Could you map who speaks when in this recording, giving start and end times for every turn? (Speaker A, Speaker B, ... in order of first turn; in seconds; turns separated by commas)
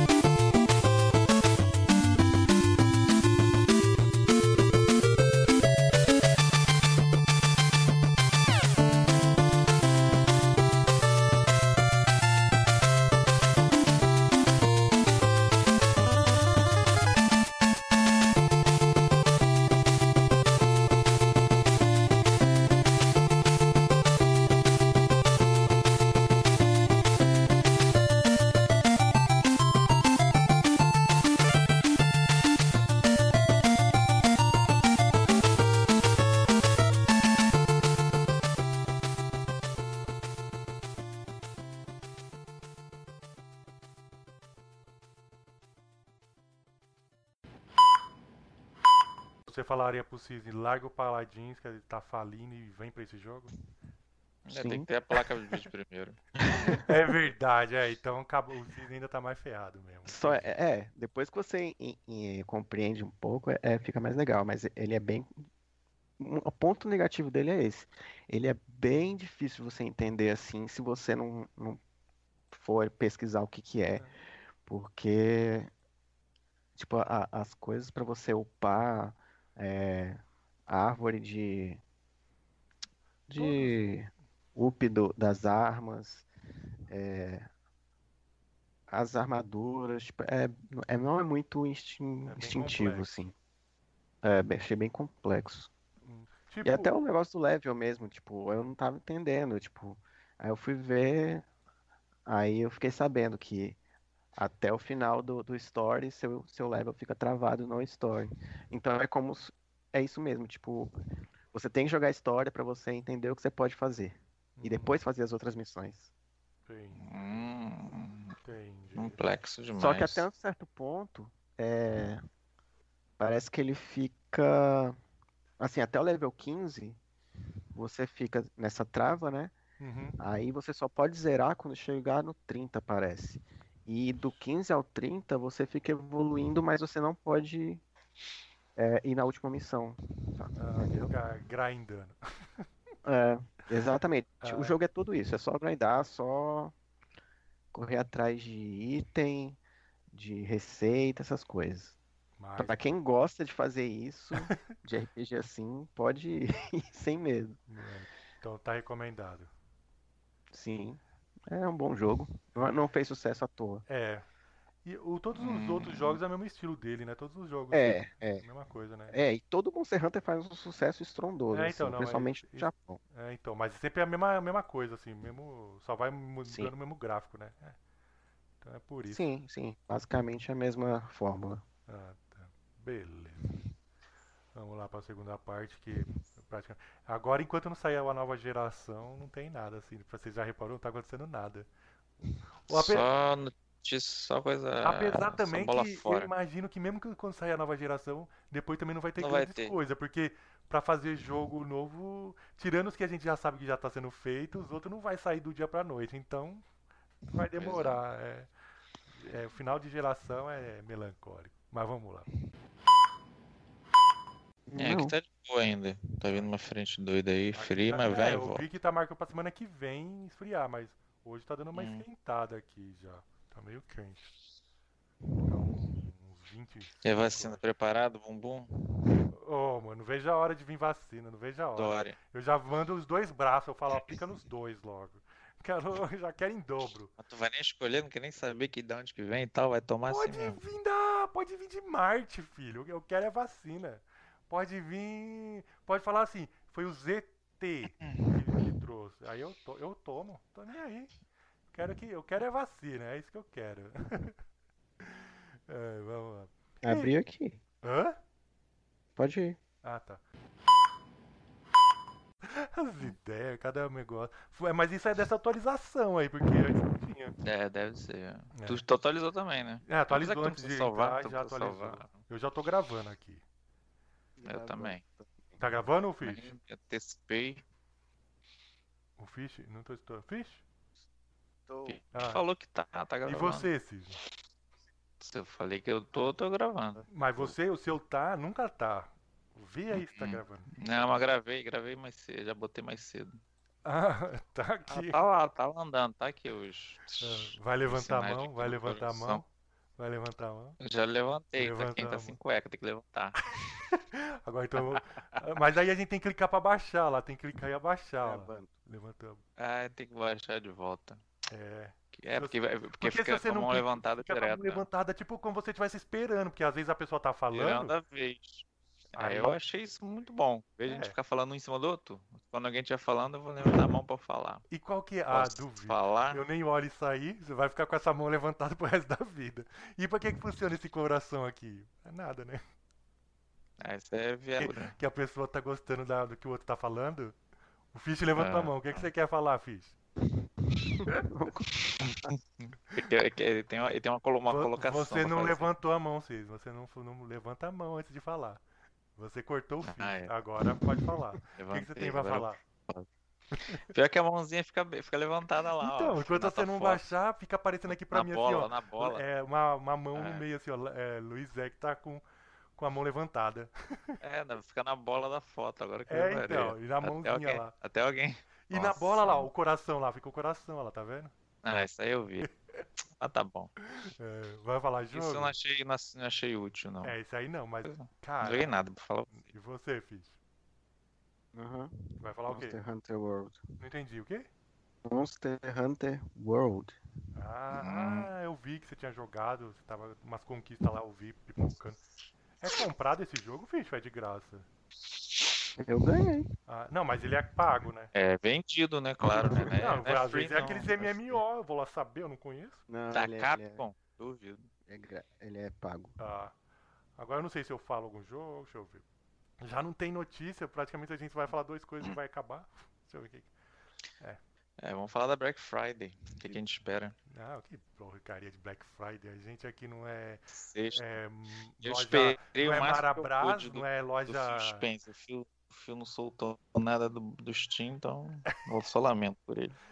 Speaker A: 49.5-53.5, Speaker B: 54.5-56.8, Speaker C: 54.5-54.9, Speaker A: 56.7-60.4, Speaker C: 60.0-65.3, Speaker C: 66.2-71.8, Speaker C: 72.5-74.0, Speaker C: 74.7-75.7, Speaker C: 76.8-81.8, Speaker C: 83.3-86.3, Speaker A: 83.3-83.8, Speaker C: 86.9-87.5, Speaker C: 88.9-93.3, Speaker A: 92.2-93.1, Speaker C: 94.2-95.7, Speaker A: 96.0-96.9, Speaker C: 96.6-101.5, Speaker C: 102.2-103.8, Speaker C: 104.3-110.9, Speaker C: 111.5-116.1, Speaker A: 114.6-115.0, Speaker A: 116.7-117.5, Speaker B: 116.9-118.3, Speaker A: 118.4-119.2, Speaker B: 118.9-120.2, Speaker C: 119.8-122.2, Speaker C: 123.2-125.0, Speaker C: 125.6-127.0, Speaker C: 127.7-129.5, Speaker A: 129.8-130.2, Speaker C: 130.2-137.8, Speaker C: 138.8-141.0, Speaker A: 140.6-142.2, Speaker C: 143.0-146.7, Speaker A: 144.4-144.8, Speaker C: 147.7-149.6, Speaker C: 150.1-152.0, Speaker A: 152.4-152.8, Speaker C: 152.6-157.6, Speaker A: 157.7-159.5, Speaker C: 160.5-163.8, Speaker A: 163.9-164.2, Speaker A: 164.8-169.2, Speaker B: 165.3-166.2, Speaker C: 167.7-168.4, Speaker C: 169.1-173.0, Speaker A: 171.5-177.8, Speaker C: 176.4-176.7, Speaker A: 178.6-179.2, Speaker C: 179.1-181.6, Speaker A: 181.9-183.6, Speaker A: 184.5-191.7, Speaker A: 192.7-193.1, Speaker B: 192.7-196.3, Speaker A: 194.8-206.6, Speaker B: 199.2-199.7, Speaker A: 207.3-208.5, Speaker B: 207.6-208.0, Speaker A: 209.2-212.3, Speaker C: 214.7-215.1, Speaker B: 214.8-218.6, Speaker A: 217.5-224.3, Speaker B: 221.7-222.0, Speaker A: 225.4-227.6, Speaker B: 227.0-228.7, Speaker A: 229.3-237.1, Speaker B: 231.7-232.2, Speaker B: 237.2-240.6, Speaker A: 240.1-251.1, Speaker B: 247.8-248.7, Speaker A: 251.7-254.3, Speaker A: 255.0-257.1, Speaker C: 256.8-257.6, Speaker A: 257.8-258.1, Speaker C: 259.2-259.6, Speaker A: 259.8-260.2, Speaker A: 262.4-267.4, Speaker B: 267.4-272.2, Speaker A: 268.5-268.8, Speaker A: 269.9-273.4, Speaker C: 274.4-275.6, Speaker B: 274.4-275.0, Speaker A: 275.6-276.5, Speaker B: 276.2-277.6, Speaker A: 279.2-280.6, Speaker C: 281.7-282.0, Speaker B: 281.8-283.7, Speaker A: 282.1-282.4, Speaker A: 283.2-284.2, Speaker B: 285.2-287.5, Speaker A: 287.1-290.7, Speaker B: 289.9-293.4, Speaker A: 293.8-295.2, Speaker B: 294.9-299.4, Speaker A: 297.2-299.4, Speaker A: 300.0-300.8, Speaker B: 300.8-303.4, Speaker A: 301.6-302.4, Speaker A: 303.6-309.4, Speaker B: 304.8-305.4, Speaker C: 308.2-308.7, Speaker B: 309.6-311.2, Speaker A: 311.5-317.9, Speaker B: 312.1-314.8, Speaker B: 317.5-324.6, Speaker A: 319.1-319.6, Speaker A: 320.8-321.1, Speaker A: 324.7-332.6, Speaker B: 325.3-326.4, Speaker B: 333.8-334.9, Speaker A: 334.6-337.4, Speaker A: 337.9-339.9, Speaker B: 338.4-339.1, Speaker C: 340.6-342.1, Speaker B: 342.3-345.6, Speaker A: 344.5-348.6, Speaker A: 349.2-352.6, Speaker B: 349.8-350.3, Speaker B: 351.0-353.1, Speaker B: 353.6-357.0, Speaker A: 355.8-362.2, Speaker B: 357.9-359.2, Speaker B: 360.1-360.4, Speaker A: 362.8-363.7, Speaker B: 364.2-369.5, Speaker A: 366.1-367.7, Speaker A: 368.7-371.3, Speaker B: 371.6-372.5, Speaker B: 373.2-373.7, Speaker A: 374.0-375.5, Speaker B: 375.1-377.1, Speaker A: 377.0-378.8, Speaker B: 377.8-379.4, Speaker A: 379.3-380.4, Speaker C: 381.5-383.6, Speaker A: 382.2-382.8, Speaker A: 383.8-384.5, Speaker C: 385.0-387.0, Speaker A: 387.4-392.0, Speaker B: 387.7-388.3, Speaker A: 392.6-394.7, Speaker C: 395.8-396.5, Speaker A: 396.7-398.1, Speaker B: 398.1-401.4, Speaker A: 399.2-402.8, Speaker C: 399.3-400.0, Speaker C: 402.9-403.8, Speaker B: 403.1-404.7, Speaker C: 404.9-406.2, Speaker A: 406.2-406.5, Speaker A: 407.2-409.0, Speaker A: 409.6-413.5, Speaker B: 414.8-417.1, Speaker A: 417.3-424.8, Speaker B: 420.5-421.0, Speaker B: 421.8-429.7